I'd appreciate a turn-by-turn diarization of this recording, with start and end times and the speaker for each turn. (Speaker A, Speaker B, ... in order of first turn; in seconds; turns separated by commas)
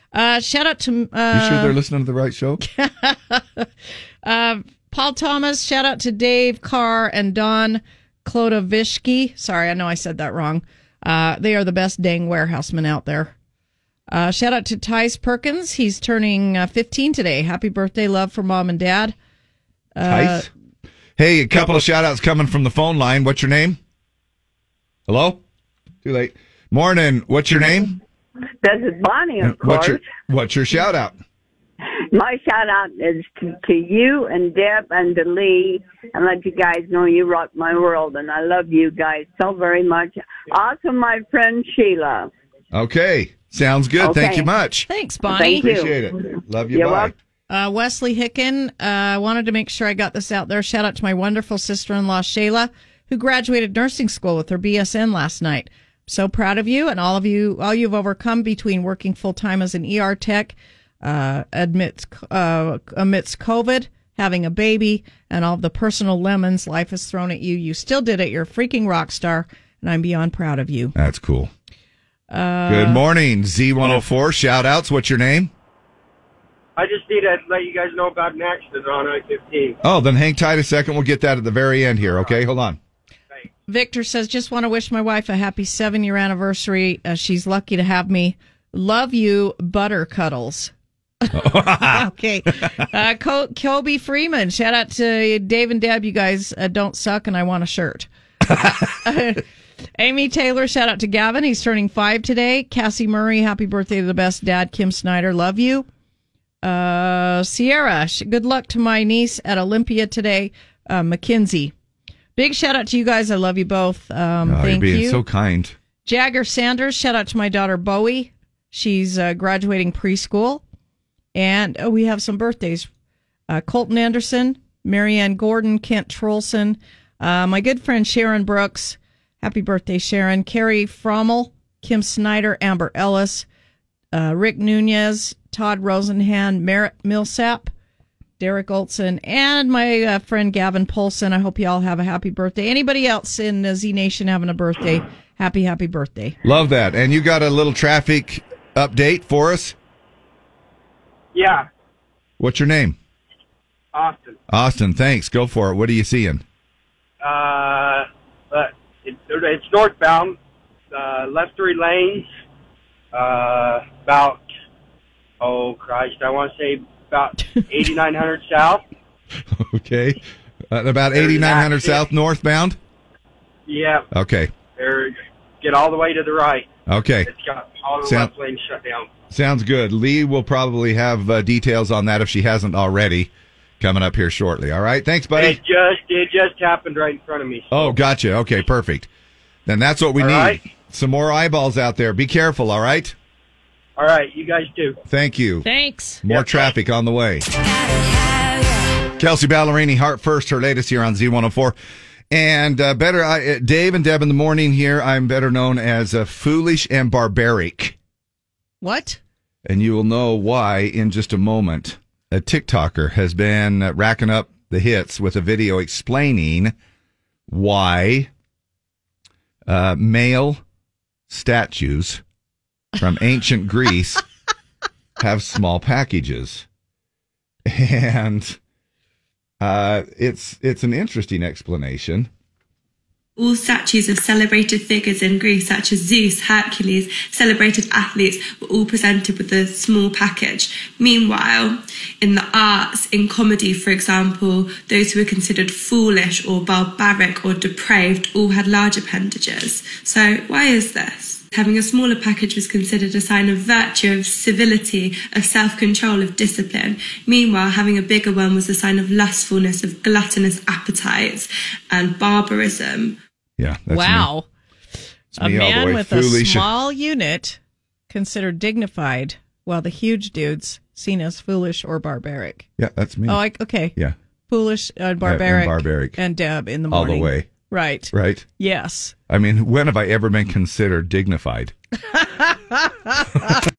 Speaker A: 0.1-1.7, Speaker B: 1.3-2.6, Speaker A: 2.6-3.7, Speaker A: 4.2-13.3, Speaker A: 14.1-19.1, Speaker A: 19.9-20.5, Speaker B: 20.0-20.5, Speaker B: 21.2-23.8, Speaker B: 25.1-25.4, Speaker B: 26.0-27.9, Speaker C: 28.6-30.1, Speaker B: 29.4-31.2, Speaker C: 32.1-42.3, Speaker B: 42.7-44.9, Speaker C: 44.0-44.5, Speaker A: 44.9-45.7, Speaker C: 45.3-47.1, Speaker B: 45.6-47.1, Speaker A: 47.5-71.0, Speaker B: 71.0-71.5, Speaker A: 72.3-73.0, Speaker B: 72.7-75.5, Speaker D: 76.8-79.8, Speaker B: 79.8-82.8, Speaker A: 83.7-90.7, Speaker A: 91.2-98.1, Speaker B: 91.3-92.1, Speaker A: 98.8-99.4, Speaker A: 100.0-105.9, Speaker A: 106.6-111.7, Speaker A: 112.4-115.2, Speaker B: 114.5-115.8, Speaker A: 116.0-120.6, Speaker A: 121.3-122.9, Speaker A: 123.5-133.4, Speaker A: 134.1-137.7, Speaker A: 138.4-146.4, Speaker B: 146.4-149.8, Speaker D: 151.3-151.7, Speaker B: 152.4-153.0, Speaker D: 153.9-154.4, Speaker B: 154.5-156.4, Speaker D: 157.2-160.4, Speaker D: 160.9-162.3, Speaker D: 163.1-164.4, Speaker D: 165.4-168.8, Speaker B: 169.5-170.2, Speaker B: 170.7-172.8, Speaker D: 171.1-172.1, Speaker D: 173.7-174.1, Speaker B: 174.1-174.5, Speaker D: 174.8-176.7, Speaker B: 176.9-177.3, Speaker D: 177.3-179.1, Speaker B: 178.0-178.3, Speaker B: 179.3-185.6, Speaker D: 185.4-187.9, Speaker B: 187.7-189.1, Speaker B: 189.7-193.1, Speaker D: 190.2-190.6, Speaker D: 194.0-195.0, Speaker B: 195.1-195.7, Speaker A: 195.6-196.2, Speaker B: 196.2-197.4, Speaker D: 196.3-196.7, Speaker B: 199.2-201.8, Speaker B: 202.3-207.9, Speaker A: 208.8-209.2, Speaker B: 209.6-216.7, Speaker B: 217.5-218.3, Speaker B: 219.7-220.6, Speaker B: 221.3-222.2, Speaker B: 223.0-224.2, Speaker B: 225.2-226.7, Speaker B: 227.7-228.6, Speaker B: 229.6-232.3, Speaker E: 233.4-263.2, Speaker B: 263.6-264.3, Speaker A: 263.9-264.5, Speaker B: 265.3-266.7, Speaker A: 265.4-267.6, Speaker A: 268.1-272.7, Speaker B: 272.8-273.4, Speaker A: 273.3-273.9, Speaker A: 274.5-279.1, Speaker B: 275.2-276.2, Speaker B: 276.9-277.5, Speaker B: 278.1-278.4, Speaker B: 279.3-281.7, Speaker A: 282.2-282.8